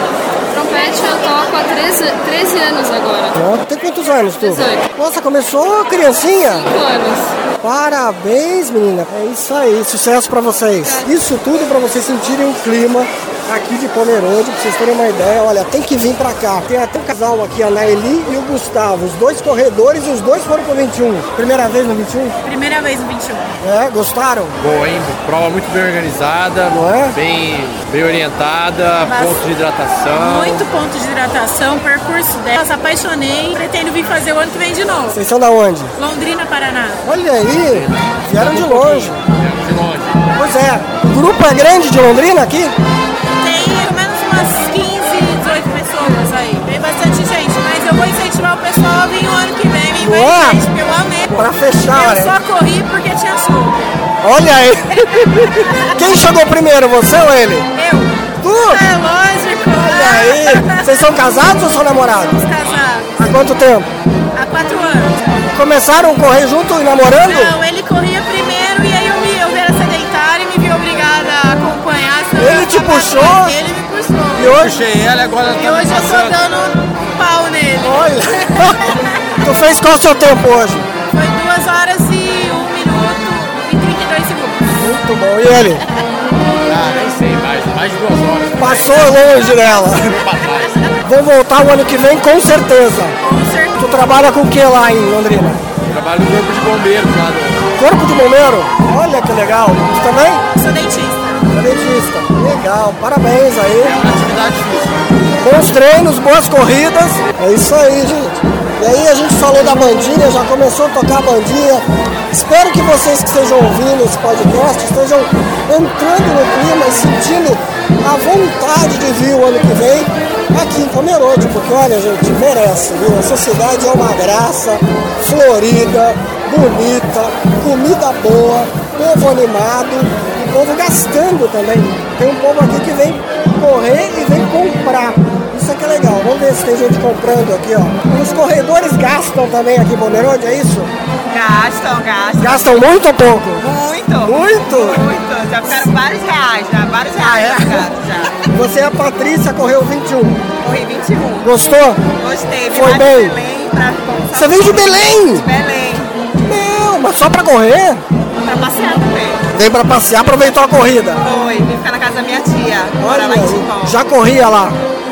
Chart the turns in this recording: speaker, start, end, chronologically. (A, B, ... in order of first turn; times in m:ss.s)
0:00.5-0:03.4 A
0:03.4-0:06.7 B
0:04.4-0:04.9 A
0:06.5-0:07.3 A
0:07.6-0:22.4 B
0:10.8-0:11.1 A
0:22.4-0:23.5 C
0:23.6-0:24.6 B
0:24.6-0:30.6 D
0:26.7-0:27.2 B
0:29.0-0:29.4 C
0:30.1-0:35.2 C
0:35.1-0:35.9 B
0:36.0-0:37.0 C
0:37.0-0:39.2 B
0:37.7-0:40.2 D
0:40.4-0:42.7 B
0:43.4-0:53.8 C
0:50.0-0:50.6 B
0:51.2-0:52.3 B
0:54.2-0:57.7 B
0:57.7-1:01.2 C
0:58.4-0:58.8 B
0:59.7-1:02.4 B
1:02.3-1:03.3 C
1:03.2-1:03.9 B
1:04.3-1:05.2 C
1:05.5-1:07.5 B
1:07.1-1:14.6 C
1:12.4-1:13.5 B
1:14.3-1:14.8 B
1:14.5-1:16.4 D
1:15.5-1:18.0 C
1:17.8-1:18.9 B
1:19.4-1:20.9 B
1:21.1-1:24.8 C
1:24.8-1:25.8 B
1:26.7-1:29.0 D
1:28.6-1:30.2 B
1:30.2-1:30.7 D
1:31.0-1:33.1 B
1:33.2-1:33.8 C
1:33.8-1:35.6 B
1:35.9-1:37.6 D
1:37.8-1:40.4 B
1:40.5-1:41.5 C
1:41.5-1:44.0 B
1:43.8-1:45.0 D
1:45.4-2:20.9 B
2:21.3-2:22.8 E
2:22.4-2:23.6 B
2:23.6-2:28.3 E
2:24.2-2:25.0 B
2:27.2-2:27.8 B
2:28.5-2:30.4 B
2:30.6-2:31.5 E
2:31.4-2:32.0 B
2:32.2-2:36.1 E
2:32.7-2:33.4 B
2:34.3-2:35.4 B
2:36.4-2:38.0 B
2:38.4-2:39.4 E
2:39.5-2:41.2 B
2:41.2-2:44.0 E
2:43.0-2:44.8 B